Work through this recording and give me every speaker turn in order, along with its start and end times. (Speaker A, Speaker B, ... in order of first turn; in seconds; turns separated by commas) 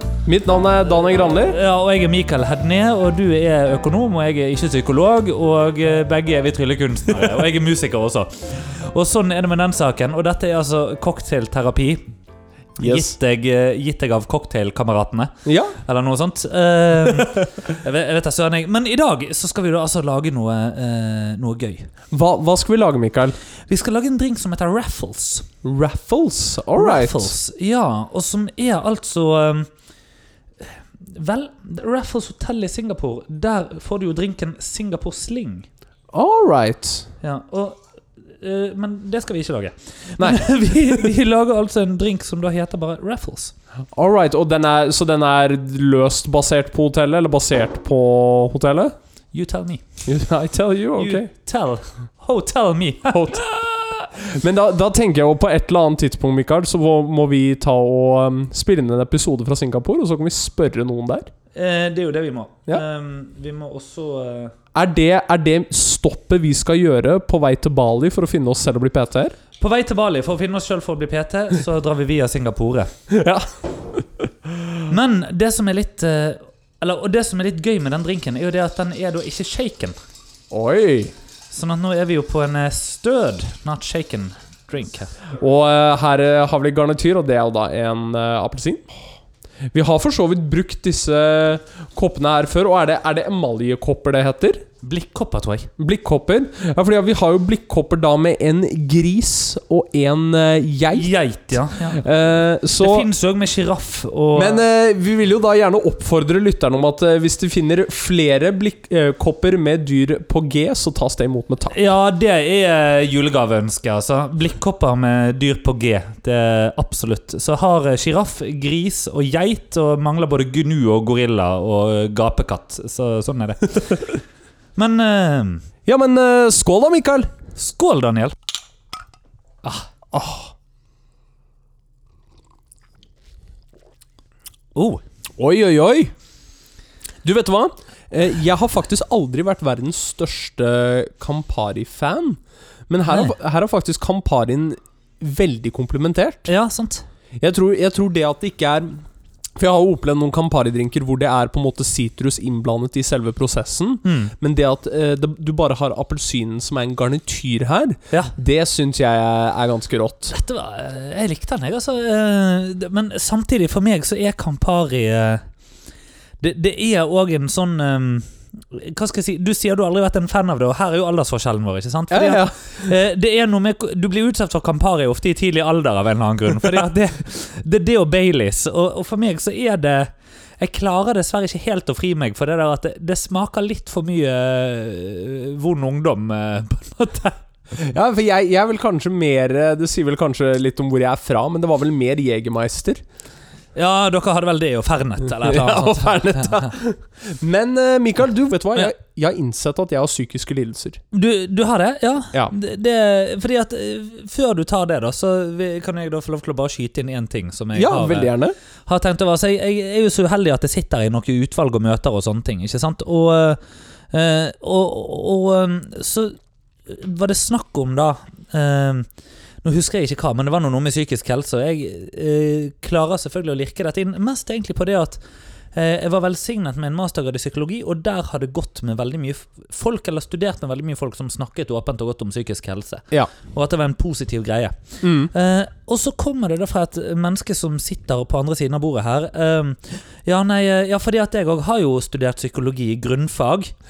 Speaker A: 0.2-1.6, Speaker B: 1.3-12.0, Speaker B: 12.8-21.9, Speaker A: 12.8-13.1, Speaker A: 15.4-15.8, Speaker A: 22.1-23.4, Speaker B: 23.7-25.5, Speaker A: 25.6-27.3, Speaker B: 26.8-29.7, Speaker B: 30.6-35.7, Speaker A: 36.1-37.1, Speaker B: 37.2-37.8, Speaker B: 38.4-43.5, Speaker A: 43.9-48.9, Speaker B: 49.3-49.8, Speaker A: 50.0-51.3, Speaker B: 51.0-54.1, Speaker A: 53.1-53.5, Speaker A: 54.1-61.3, Speaker B: 61.5-64.5, Speaker A: 64.7-69.3, Speaker B: 69.6-72.9, Speaker A: 73.1-74.9, Speaker B: 74.9-80.0, Speaker A: 80.5-81.1, Speaker B: 81.5-85.1, Speaker A: 85.4-88.9, Speaker A: 89.7-94.6, Speaker B: 94.8-95.7, Speaker A: 95.8-103.1, Speaker B: 100.9-102.0, Speaker B: 102.8-104.6, Speaker A: 104.3-111.7, Speaker B: 111.7-124.2, Speaker B: 124.8-125.7, Speaker A: 125.8-127.3, Speaker B: 127.5-128.3, Speaker B: 129.6-129.9, Speaker A: 130.1-130.5, Speaker B: 134.7-135.0, Speaker A: 135.4-136.1, Speaker A: 137.2-146.5, Speaker B: 146.4-147.0, Speaker A: 147.4-149.0, Speaker A: 149.6-160.3, Speaker B: 154.0-154.3, Speaker B: 160.3-165.4, Speaker B: 166.4-187.4, Speaker A: 172.1-172.9, Speaker A: 187.7-193.0, Speaker B: 193.7-196.7, Speaker A: 195.3-201.0, Speaker B: 201.1-208.3, Speaker A: 207.7-208.5, Speaker B: 208.8-213.6, Speaker B: 214.1-219.1, Speaker B: 219.6-225.2, Speaker B: 225.7-243.7, Speaker A: 235.0-235.3